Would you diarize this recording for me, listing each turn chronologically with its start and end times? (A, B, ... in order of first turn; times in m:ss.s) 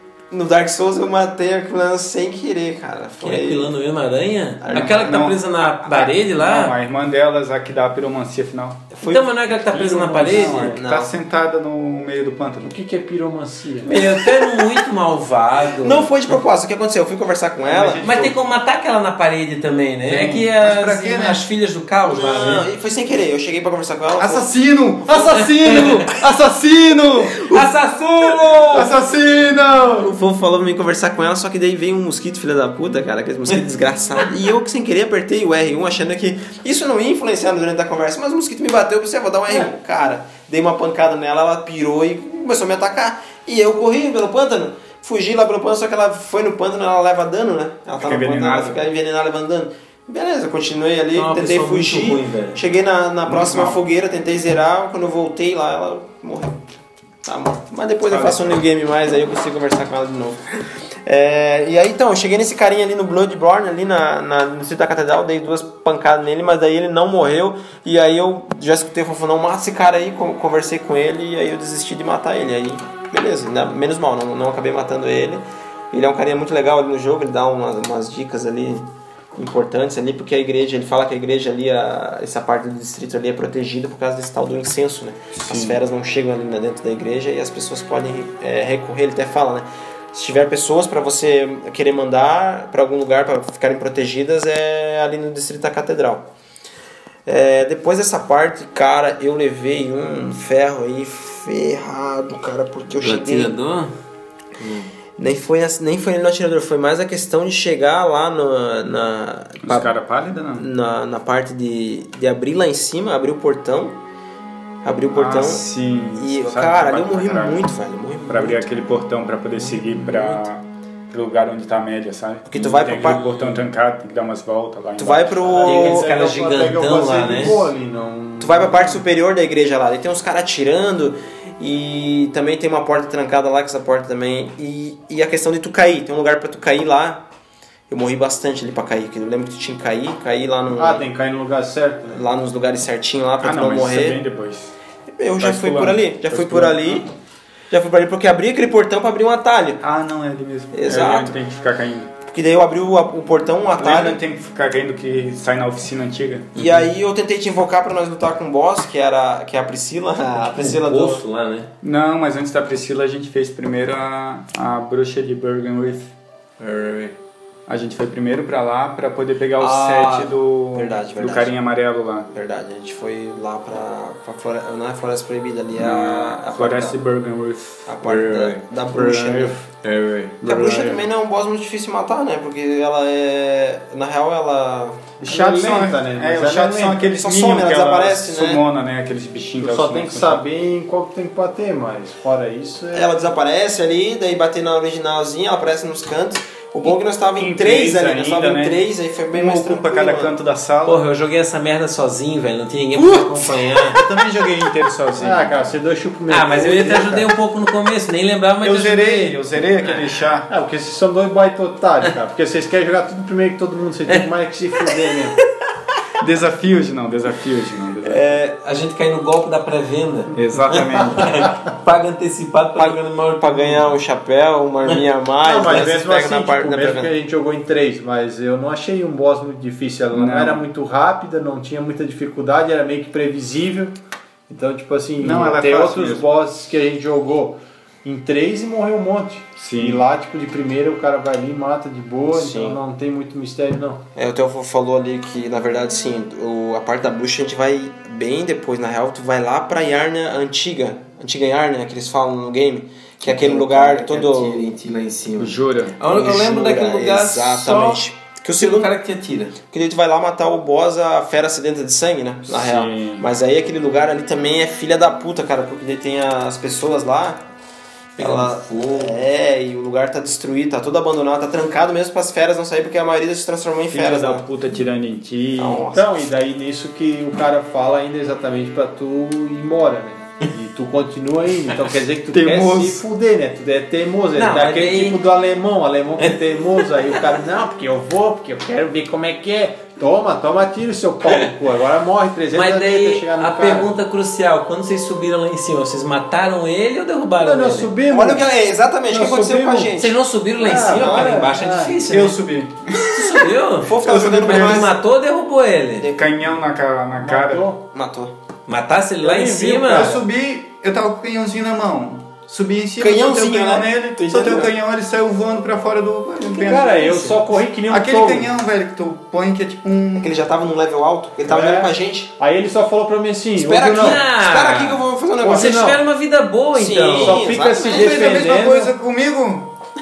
0:00.3-0:03.7 A
0:03.2-0:06.7 B
0:04.6-0:05.2 A
0:04.7-0:08.9 C
0:09.0-0:10.8 B
0:09.0-0:09.3 A
0:09.7-0:10.8 D
0:10.1-0:12.8 C
0:10.7-0:11.1 A
0:12.6-0:13.9 D
0:13.8-0:16.1 B
0:14.0-0:14.7 A
0:15.8-0:18.1 A
0:17.6-0:18.4 C
0:18.0-0:22.6 B
0:20.1-0:21.5 C
0:22.0-0:24.5 A
0:24.2-0:27.6 C
0:25.7-0:26.0 B
0:27.5-0:28.9 B
0:28.7-0:30.1 C
0:30.0-0:56.6 A
0:48.0-0:48.8 C
0:51.1-0:52.6 B
0:53.3-0:53.8 C
0:57.2-1:36.3 A
0:58.1-0:58.6 C
1:25.3-1:25.8 C
1:37.3-1:43.6 A
1:43.0-1:43.9 B
1:44.6-1:44.9 B
1:45.2-1:49.9 A
1:49.6-1:50.7 C
1:50.6-1:54.0 A
1:54.8-1:58.8 A
1:55.1-1:57.6 C
1:58.3-2:05.5 C
1:59.7-2:00.4 B
2:02.5-2:03.5 A
2:05.0-2:06.1 A
2:05.5-2:09.0 D
2:05.6-2:07.6 B
2:06.9-2:07.6 A
2:08.4-2:17.2 A
2:17.9-2:21.1 A
2:20.8-2:22.2 D
2:22.1-2:24.2 A
2:23.4-2:24.7 C
2:25.2-2:27.1 A
2:25.4-2:27.0 C
2:27.7-2:29.8 A
2:29.8-2:32.1 C
2:30.7-2:31.4 A
2:32.3-2:34.2 A
2:33.8-2:36.6 C
2:36.6-2:41.2 A
2:40.5-2:41.7 B
2:41.8-2:46.1 C
2:46.6-2:47.2 B
2:47.7-2:52.3 C
2:49.6-2:51.6 A
2:52.3-2:57.0 A
2:55.8-2:59.6 C
2:57.9-2:59.6 A
2:59.8-3:00.3 B
3:00.4-3:01.0 D
3:00.4-3:05.1 A
3:05.2-3:07.1 D
3:05.3-3:10.4 C
3:07.1-3:08.6 A
3:09.6-3:13.2 D
3:12.9-3:20.3 A
3:17.4-3:21.0 C
3:20.8-3:24.0 B
3:23.0-3:23.5 A
3:23.9-3:25.7 C
3:25.2-3:27.3 D
3:26.3-3:30.0 B
3:28.6-3:30.5 C
3:30.5-3:35.4 D
3:36.2-3:38.4 C
3:38.0-3:38.4 A
3:38.4-3:43.8 B
3:40.4-3:41.5 C
3:42.8-3:47.1 A
3:45.4-3:54.0 D
3:50.1-3:50.6 C
3:54.5-4:04.0 D
3:55.2-3:56.2 C
3:59.6-4:00.0 C
4:02.3-4:02.8 A
4:04.2-4:14.8 A
4:13.2-4:18.0 B
4:15.4-4:16.0 C
4:16.0-4:18.9 A
4:18.6-4:19.6 B
4:19.6-4:27.4 A
4:22.5-4:23.2 C
4:28.2-4:29.2 B
4:28.2-4:34.5 A
4:33.9-4:35.8 C
4:35.6-4:36.1 A
4:35.9-4:53.9 D
4:42.3-4:43.0 C
4:44.4-4:45.2 B
4:52.5-4:57.9 B
4:57.4-4:58.5 D
4:58.1-5:00.2 A
4:59.1-5:00.0 D
5:00.0-5:02.4 B
5:00.6-5:02.0 D
5:00.7-5:01.5 A
5:02.1-5:03.5 C
5:03.1-5:06.1 B
5:03.8-5:05.0 A
5:04.0-5:04.9 C
5:06.0-5:06.4 A
5:06.2-5:07.7 C
5:07.2-5:07.8 D
5:07.9-5:08.3 A
5:08.7-5:10.2 B
5:09.2-5:10.2 D
5:09.9-5:20.3 C
5:13.0-5:14.7 A
5:16.4-5:18.5 D
5:17.0-5:17.4 B
5:20.2-5:22.3 A
5:21.4-5:24.2 D
5:23.6-5:25.9 A
5:23.9-5:27.5 B
5:25.4-5:26.0 D
5:26.7-5:28.4 A
5:27.2-5:28.9 D
5:27.7-5:29.7 C